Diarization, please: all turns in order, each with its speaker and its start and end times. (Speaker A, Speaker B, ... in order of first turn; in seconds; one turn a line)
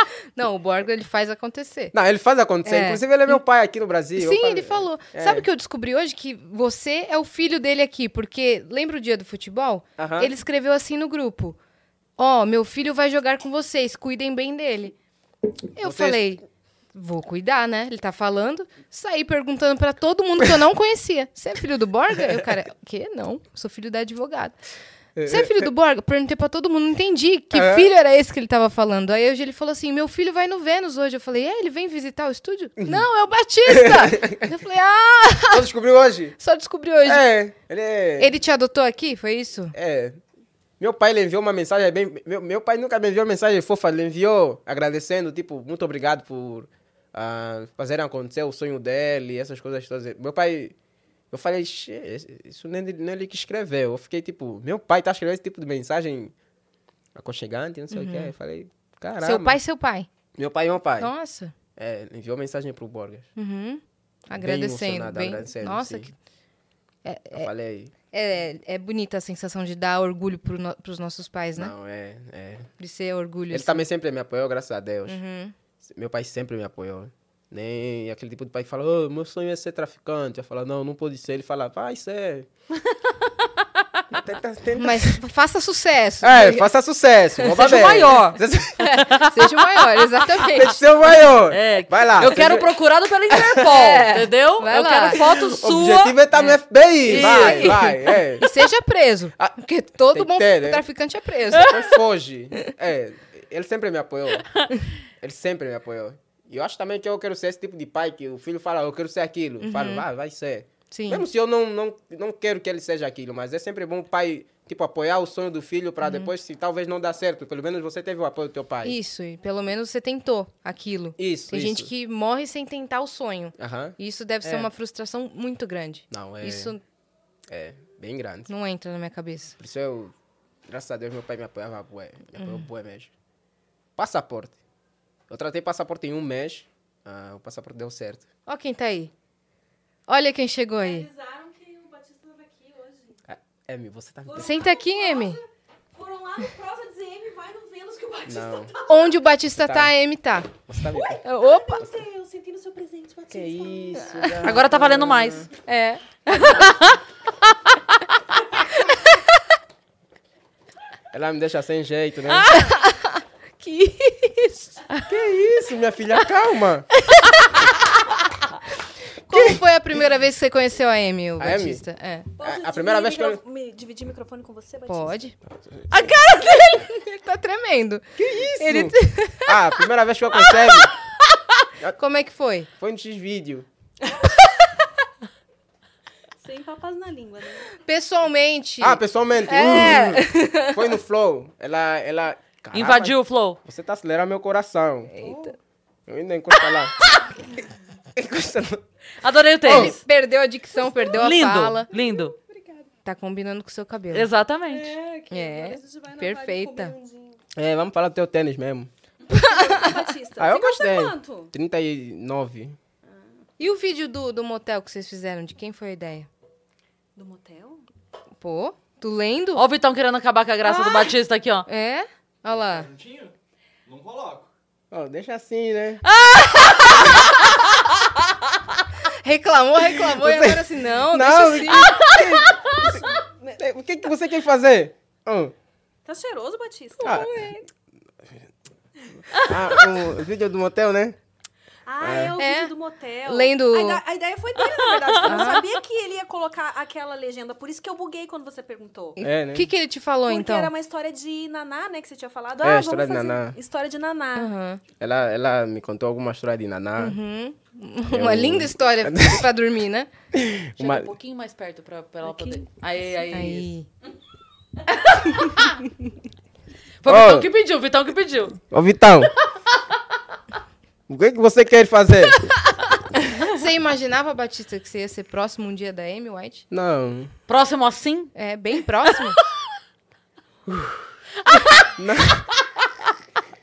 Speaker A: 0.3-1.9
Speaker B: 1.9-5.5
Speaker A: 2.6-3.4
Speaker A: 4.2-11.6
Speaker B: 10.0-10.3
Speaker A: 12.2-15.0
Speaker A: 15.8-16.4
Speaker B: 15.8-16.3
Speaker A: 16.9-24.6
Speaker B: 25.2-25.7
Speaker A: 25.3-35.7
Speaker B: 27.5-27.9
Speaker B: 32.8-33.0
Speaker B: 33.7-34.6
Speaker B: 35.5-36.4
Speaker A: 36.4-37.3
Speaker B: 37.0-38.4
Speaker A: 38.2-39.8
Speaker B: 39.7-40.2
Speaker B: 40.8-50.8
Speaker B: 51.3-56.3
Speaker B: 57.1-59.6
Speaker A: 57.9-58.3
Speaker A: 59.2-60.1
Speaker B: 60.4-61.1
Speaker A: 61.0-61.5
Speaker B: 61.8-63.3
Speaker A: 63.4-66.1
Speaker B: 64.4-66.1
Speaker A: 67.0-67.5
Speaker B: 67.3-67.9
Speaker A: 68.1-71.7
Speaker B: 71.6-72.7
Speaker A: 72.8-73.8
Speaker B: 73.5-75.2
Speaker A: 75.1-75.5
Speaker B: 75.8-82.5
Speaker B: 84.1-85.2
Speaker A: 84.8-86.7
Speaker B: 86.2-88.9
Speaker C: 87.5-88.4
Speaker A: 88.8-90.8
Speaker C: 88.9-90.3
Speaker B: 90.5-92.7
Speaker C: 91.3-98.0
Speaker B: 93.3-93.9
Speaker A: 93.6-95.2
Speaker B: 95.2-98.5
Speaker A: 97.1-101.8
Speaker B: 99.4-100.8
Speaker B: 101.5-104.5
Speaker B: 105.2-119.0
Speaker A: 109.6-110.0
Speaker A: 110.9-111.2
Speaker A: 116.0-116.3
Speaker A: 118.8-126.8
Speaker B: 121.2-121.9
Speaker B: 123.6-124.7
Speaker B: 126.1-126.7
Speaker B: 127.5-128.5
Speaker A: 128.5-129.6
Speaker B: 129.6-130.1
Speaker B: 130.7-133.1
Speaker A: 132.4-132.7
Speaker B: 134.0-134.6
Speaker B: 135.3-138.3
Speaker A: 138.5-139.1
Speaker A: 140.1-141.1
Speaker D: 140.8-143.2
Speaker B: 143.3-144.6
Speaker D: 144.3-145.4
Speaker A: 144.4-145.4
Speaker D: 145.9-149.1
Speaker B: 148.3-148.7
Speaker A: 148.8-151.8
Speaker B: 149.6-149.9
Speaker B: 150.7-151.2
Speaker D: 151.2-154.2
Speaker B: 153.3-155.5
Speaker A: 153.9-154.3
Speaker C: 154.4-155.5
Speaker A: 155.7-156.8
Speaker C: 156.4-156.9
Speaker B: 161.1-162.6
Speaker A: 162.5-165.0
Speaker B: 165.1-166.9
Speaker A: 167.0-167.7
Speaker A: 169.3-172.3
Speaker B: 169.3-169.6
Speaker B: 171.4-171.8
Speaker D: 172.4-175.3
Speaker B: 172.4-173.4
Speaker A: 174.9-175.3
Speaker B: 175.5-176.1
Speaker A: 175.9-179.8
Speaker B: 178.2-180.9
Speaker A: 180.5-180.8
Speaker A: 182.0-182.7
Speaker B: 182.8-183.7
Speaker D: 186.4-187.7
Speaker A: 187.8-190.8
Speaker B: 188.8-195.1
Speaker C: 192.7-193.6
Speaker A: 195.1-195.6
Speaker D: 195.2-195.6
Speaker B: 196.1-196.9
Speaker B: 198.2-198.8
Speaker C: 199.2-200.0
Speaker B: 199.7-199.9
Speaker A: 199.7-201.9
Speaker C: 201.1-202.3
Speaker D: 201.9-202.9
Speaker A: 203.1-204.3
Speaker C: 204.1-204.9
Speaker D: 204.7-207.4
Speaker A: 205.3-206.9
Speaker B: 207.6-208.9
Speaker D: 209.3-211.5
Speaker A: 209.3-210.0
Speaker B: 210.4-212.8
Speaker A: 213.6-216.3
Speaker D: 217.2-217.8
Speaker A: 218.4-219.6
Speaker C: 219.6-221.7
Speaker A: 221.7-223.0
Speaker B: 224.9-226.0
Speaker C: 226.1-227.5
Speaker A: 229.2-232.4
Speaker B: 229.9-233.0
Speaker D: 233.2-233.5
Speaker B: 233.6-235.6
Speaker D: 236.1-237.7
Speaker B: 237.0-237.4
Speaker B: 239.3-241.2
Speaker D: 239.4-239.9
Speaker D: 241.9-249.2
Speaker B: 242.0-242.4
Speaker A: 242.4-242.7
Speaker A: 243.3-244.0
Speaker C: 245.0-245.4
Speaker A: 245.2-245.7
Speaker B: 249.2-249.7
Speaker A: 249.2-250.7
Speaker D: 250.3-254.5
Speaker B: 252.6-253.6
Speaker A: 254.3-254.8
Speaker B: 255.0-257.2
Speaker A: 257.0-260.1
Speaker B: 258.1-259.5
Speaker B: 260.3-261.1
Speaker C: 260.8-263.7
Speaker D: 262.3-262.6
Speaker A: 263.3-263.9
Speaker C: 265.1-265.8
Speaker C: 267.0-268.6
Speaker B: 267.1-267.5
Speaker B: 268.7-269.3
Speaker B: 271.1-272.5
Speaker A: 273.5-276.6
Speaker B: 276.7-277.3
Speaker C: 277.5-278.3
Speaker A: 278.4-279.4
Speaker B: 280.7-281.1
Speaker C: 281.5-281.9
Speaker B: 281.9-282.5